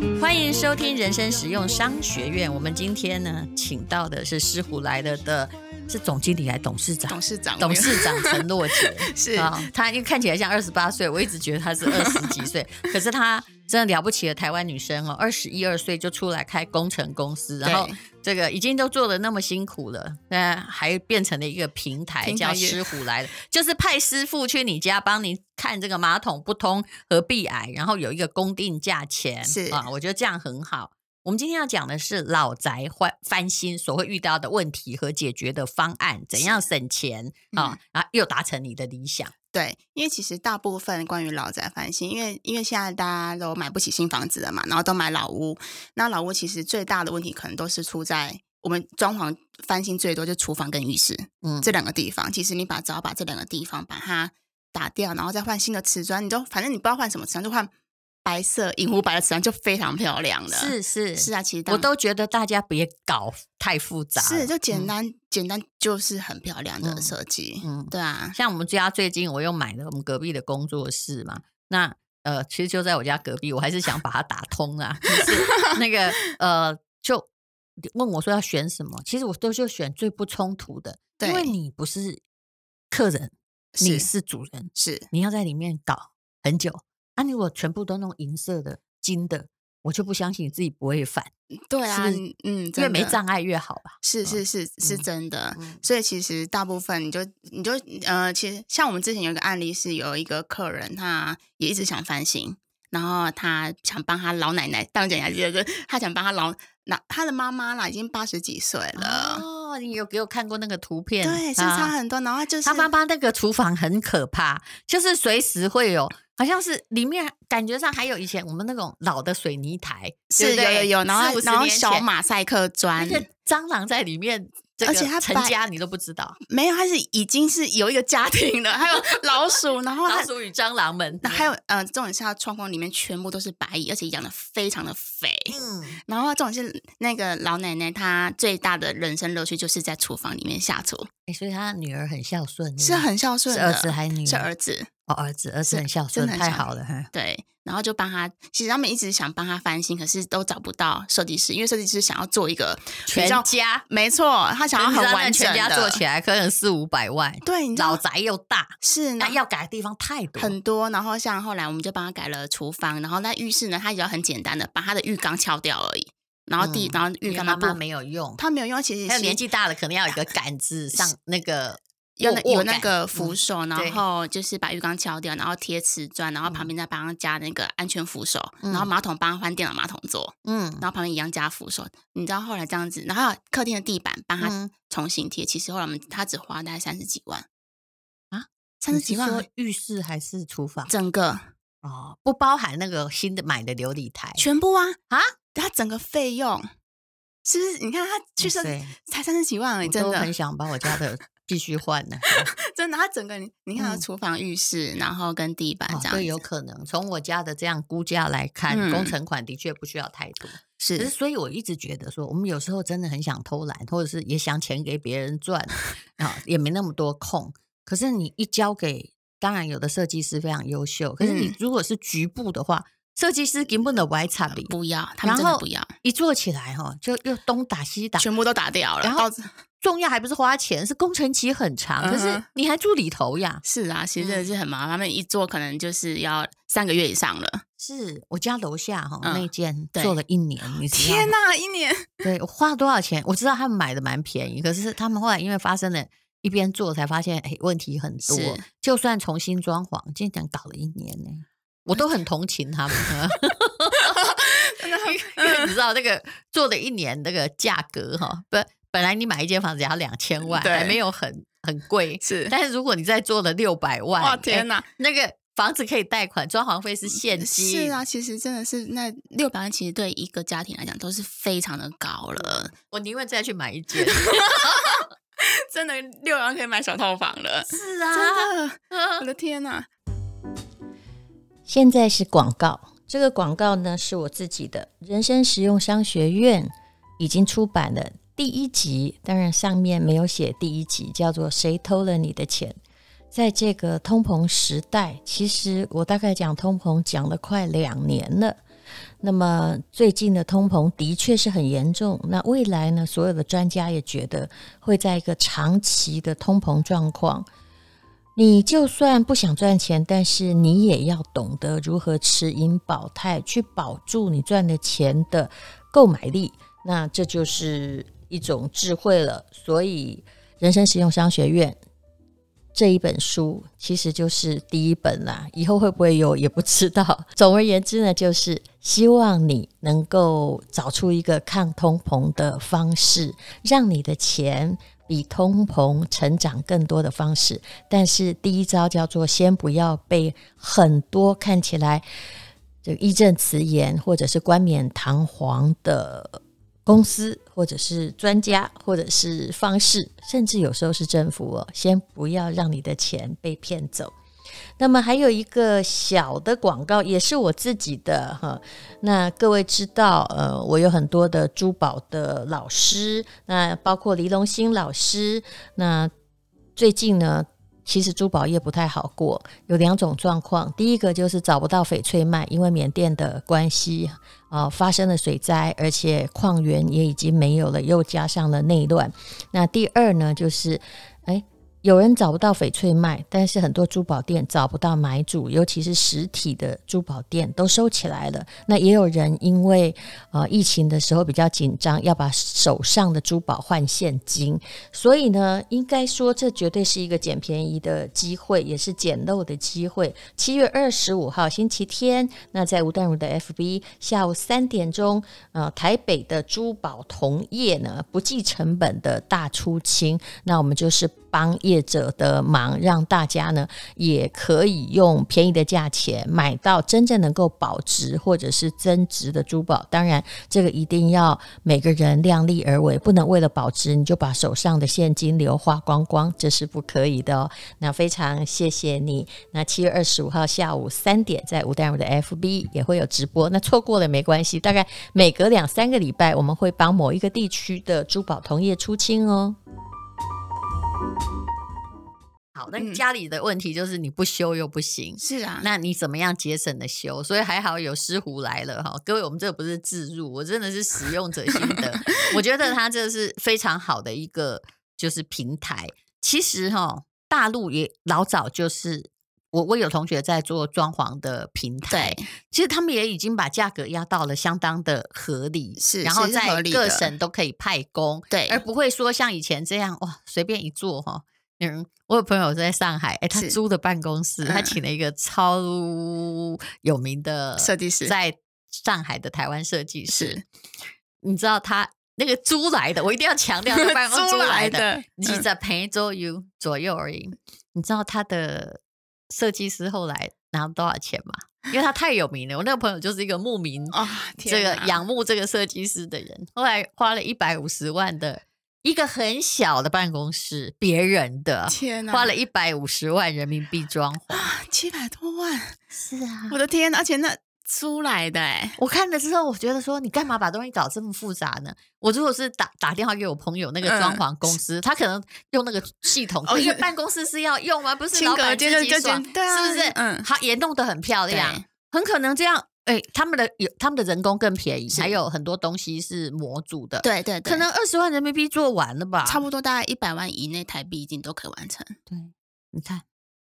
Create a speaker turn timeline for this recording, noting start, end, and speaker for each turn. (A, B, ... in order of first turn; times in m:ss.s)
0:00.1-0:39.3 A
0:07.1-0:09.7 B
0:11.8-0:12.5 B
0:17.6-0:18.0 B
0:22.2-0:23.0 B
0:29.4-0:29.9 B
0:36.3-0:36.7 B
0:37.5-0:37.8 B
0:39.5-0:57.7 B
0:51.4-0:51.7 A
0:58.2-1:01.9 B
1:00.5-1:04.9 A
1:04.1-1:08.4 B
1:06.8-1:17.3 A
1:15.1-1:15.8 B
1:17.9-1:22.2 A
1:21.2-1:21.5 B
1:22.9-1:31.3 A
1:23.8-1:24.1 B
1:24.8-1:25.1 B
1:31.7-1:33.2 B
1:31.9-1:32.2 A
1:32.8-1:35.8 A
1:34.0-1:49.4 B
1:49.0-1:51.9 A
1:51.2-1:52.9 B
1:52.6-2:02.1 A
2:00.3-2:03.3 B
2:03.0-2:06.4 A
2:04.8-2:05.6 B
2:06.4-2:10.3 B
2:10.0-2:11.5 A
2:11.2-2:21.1 B
2:15.5-2:16.0 A
2:21.3-2:24.5 A
2:22.8-2:24.9 B
2:25.1-2:27.1 A
2:25.6-2:36.0 B
2:33.1-2:33.8 A
2:34.7-2:40.6 A
2:37.4-2:38.0 B
2:38.8-2:39.4 B
2:40.4-2:47.8 B
2:46.6-2:48.4 A
2:48.4-2:49.4 B
2:49.1-2:54.0 A
2:52.2-3:07.5 B
2:56.4-2:56.7 A
2:58.6-2:58.9 A
3:00.4-3:00.8 A
3:04.4-3:04.7 A
3:08.3-3:10.9 A
3:08.8-3:09.4 B
3:10.9-3:11.5 B
3:11.8-3:14.4 A
3:14.4-3:15.0 B
3:15.5-3:16.7 B
3:17.4-3:21.0 B
3:18.4-3:18.9 A
3:19.8-3:22.5 A
3:22.2-3:26.4 B
3:23.8-3:24.0 A
3:25.9-3:48.3 A
3:28.7-3:29.2 B
3:30.8-3:31.1 B
3:41.2-3:41.6 B
3:44.5-3:45.9 B
3:48.2-3:49.5 B
3:49.0-3:49.3 A
3:49.8-3:53.6 A
3:52.0-3:52.5 B
3:53.6-3:57.6 B
3:54.2-3:54.5 A
3:57.8-4:01.3 A
3:59.2-4:02.2 B
4:02.2-4:28.0 A
4:08.2-4:08.6 B
4:14.1-4:15.8 B
4:20.4-4:21.0 B
4:22.2-4:22.6 B
4:24.2-4:24.9 B
4:27.1-4:32.7 B
4:32.4-4:35.0 A
4:34.0-4:39.9 B
4:37.7-4:39.2 A
4:41.7-4:52.8 C
4:53.3-4:58.6 C
4:59.2-5:07.5 C
5:08.4-5:21.8 C
5:22.8-5:42.0 C
5:42.8-5:54.1 C
5:54.8-6:06.1 C
6:06.8-7:19.6 C
7:22.6-8:00.4 A
7:22.7-7:23.0 B
7:25.2-7:25.7 B
7:31.5-7:32.4 B
7:41.9-7:42.3 B
7:45.8-7:47.2 B
7:48.3-7:48.6 B
7:53.3-7:53.6 B
7:54.4-7:54.8 B
7:57.6-7:58.2 B
8:00.1-8:00.4 B
8:01.2-8:24.5 A
8:03.7-8:05.5 B
8:13.9-8:15.0 B
8:21.7-8:22.4 B
8:24.3-8:25.8 B
8:25.9-8:26.6 A
8:26.5-8:28.8 B
8:28.8-8:49.4 A
8:33.8-8:34.5 B
8:36.4-8:36.9 B
8:38.1-8:40.3 B
8:41.3-8:41.7 B
8:44.9-8:45.2 B
8:47.0-8:47.7 B
8:49.2-8:52.0 B
8:52.1-8:53.0 A